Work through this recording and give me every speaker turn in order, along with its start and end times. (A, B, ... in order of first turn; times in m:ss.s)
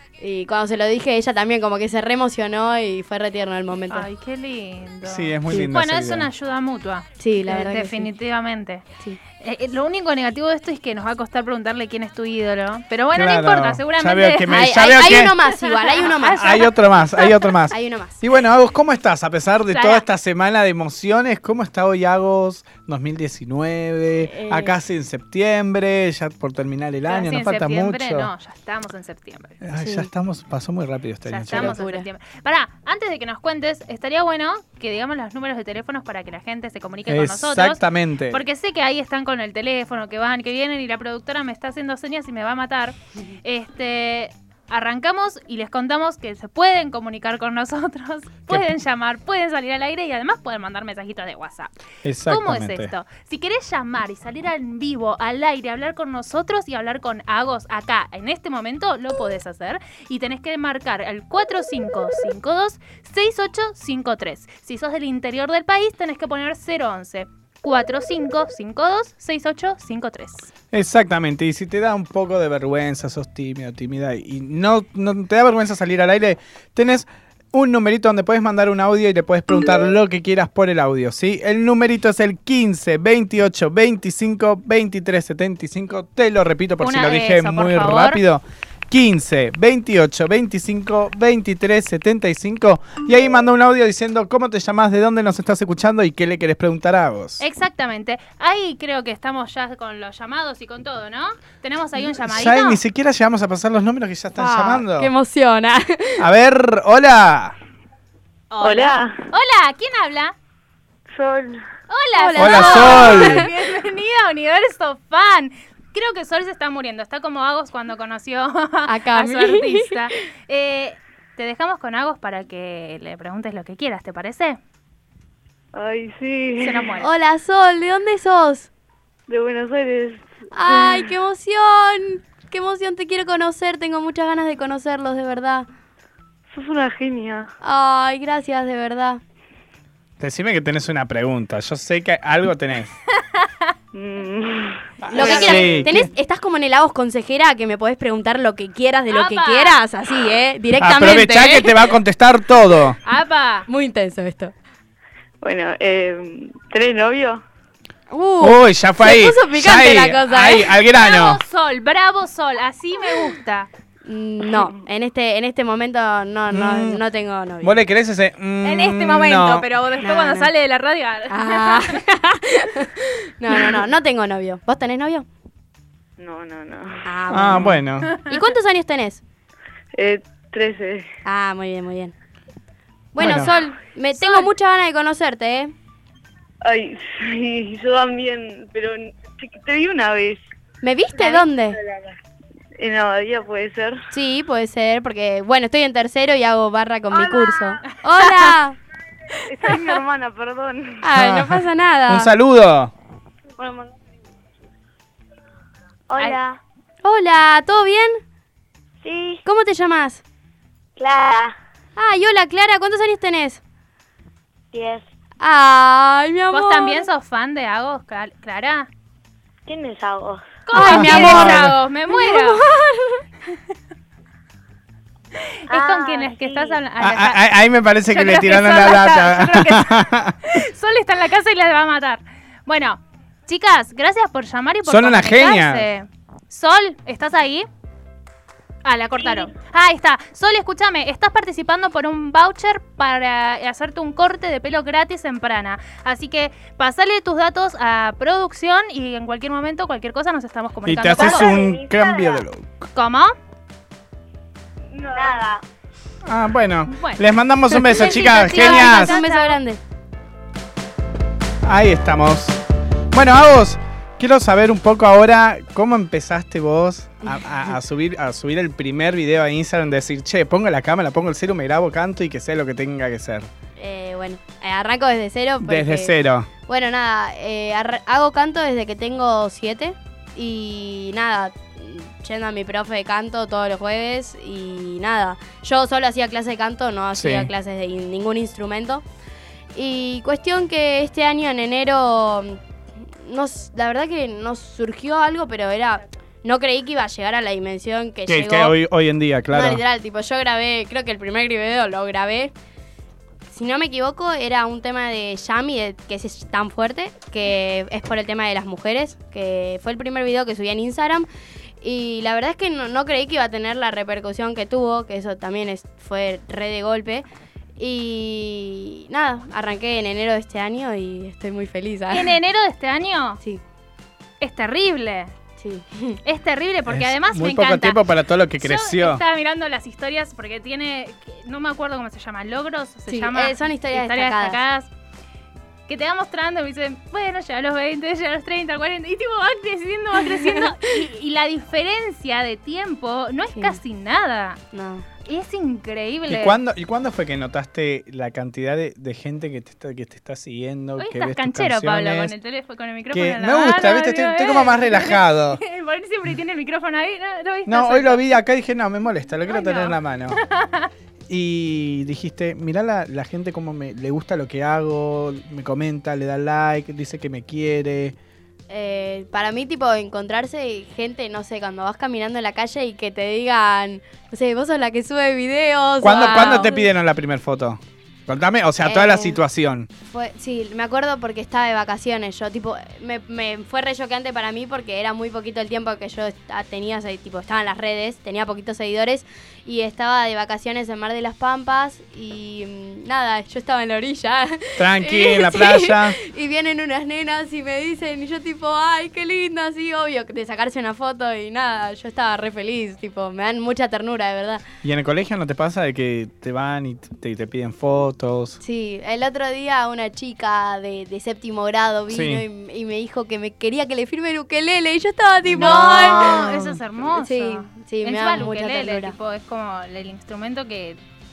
0:00.2-0:04.1 A
0:03.9-0:08.8 B
0:05.0-0:06.3 C
0:07.2-0:08.1 A
0:09.4-0:17.5 B
0:13.1-0:15.3 C
0:14.5-0:16.6 A
0:16.4-0:28.3 C
0:17.7-0:18.2 A
0:19.7-0:20.0 B
0:24.2-0:24.8 A
0:27.1-0:29.6 B
0:29.6-0:31.8 C
0:29.8-0:30.1 A
0:31.3-0:51.7 B
0:31.5-0:32.1 A
0:37.0-0:38.4 C
0:52.0-0:52.9 C
0:52.3-1:10.5 B
1:10.7-1:37.4 C
1:26.8-1:28.2 B
1:37.4-1:42.8 B
1:42.1-1:45.1 C
1:44.4-1:46.2 A
1:46.2-1:47.5 C
1:48.5-1:50.3 B
1:48.6-1:49.2 D
1:51.1-1:51.6 D
1:51.9-2:04.6 B
1:52.2-1:53.5 A
1:52.4-1:53.5 C
1:58.9-1:59.9 A
2:05.7-2:06.9 D
2:06.6-2:07.1 B
2:07.0-2:08.7 A
2:09.3-2:11.1 D
2:10.5-2:15.7 A
2:16.5-2:17.5 D
2:17.6-2:19.2 A
2:20.2-2:22.9 C
2:23.9-2:25.7 D
2:25.0-2:26.1 C
2:25.1-2:31.7 A
2:29.1-2:29.8 B
2:30.8-2:33.0 C
2:33.0-2:33.6 B
2:33.7-2:34.5 A
2:35.4-2:37.4 D
2:38.1-2:40.7 A
2:38.4-2:41.4 C
2:40.9-2:43.7 B
2:44.0-2:47.8 A
2:46.5-2:47.0 C
2:47.6-2:49.7 C
2:48.6-2:52.0 B
2:50.0-2:50.5 A
2:51.3-2:55.2 A
2:56.2-2:57.2 D
2:57.0-2:59.2 A
2:57.3-2:58.1 C
2:58.0-2:58.4 B
3:00.0-3:01.1 D
3:01.2-3:02.1 A
3:03.1-3:05.7 A
3:03.2-3:03.5 C
3:04.2-3:04.5 B
3:06.6-3:10.4 D
3:10.8-3:11.8 A
3:11.2-3:12.2 D
3:12.8-3:14.0 D
3:14.1-3:18.8 A
3:17.1-3:18.5 B
3:19.5-3:21.0 D
3:21.0-3:22.3 A
3:21.1-3:22.9 C
3:23.6-3:24.0 D
3:26.1-3:26.6 D
3:27.0-3:28.2 A
3:29.0-3:29.4 D
3:29.4-3:30.2 A
3:31.0-3:31.5 D
3:32.0-3:33.6 A
3:34.7-3:35.0 D
3:35.4-3:37.1 A
3:36.5-3:38.9 B
3:39.7-3:40.4 D
3:40.6-3:42.6 B
3:40.7-3:43.2 A
3:40.7-3:41.8 C
3:45.7-3:47.4 B
3:45.7-3:46.8 D
3:47.0-3:50.4 C
3:48.1-3:57.7 B
3:54.8-3:55.9 C
3:58.8-4:11.6 B
4:10.8-4:12.7 C
4:11.2-4:12.4 D
4:12.9-4:13.3 B
4:14.9-4:15.6 D
4:16.2-4:19.2 C
4:16.9-4:17.2 B
4:17.9-4:19.8 A
4:17.9-4:19.6 B
4:21.6-4:22.6 C
4:23.1-4:33.5 C
4:33.8-4:36.1 A
4:35.6-4:36.5 C
4:36.7-4:49.0 A
4:47.1-4:47.5 C
4:49.7-4:52.6 A
4:53.2-4:58.8 A
4:58.3-4:59.8 C
4:59.5-5:02.5 A
5:03.5-5:11.2 A
5:11.8-5:17.2 A
5:17.8-5:22.4 A
5:22.1-5:23.4 B
5:24.4-5:25.3 B
5:25.6-5:26.2 A
5:26.2-5:28.0 B
5:26.9-5:29.2 C
5:28.6-5:34.9 B
5:33.1-5:34.6 A
5:35.9-5:44.6 B
5:40.2-5:40.7 A
5:44.7-5:45.0 A
5:45.2-5:46.6 B
5:46.3-5:52.3 C
5:51.0-5:58.3 B
5:53.1-5:55.6 C
5:57.6-6:00.4 C
5:59.4-6:00.9 B
6:01.3-6:08.2 C
6:08.7-6:16.8 A
6:16.0-6:19.9 C
6:18.8-6:19.4 A
6:20.1-6:44.6 A
6:34.8-6:36.2 C
6:44.8-6:48.6 C
6:48.6-6:59.1 A
6:52.1-6:52.4 C
6:55.5-6:56.1 C
6:55.6-7:01.0 B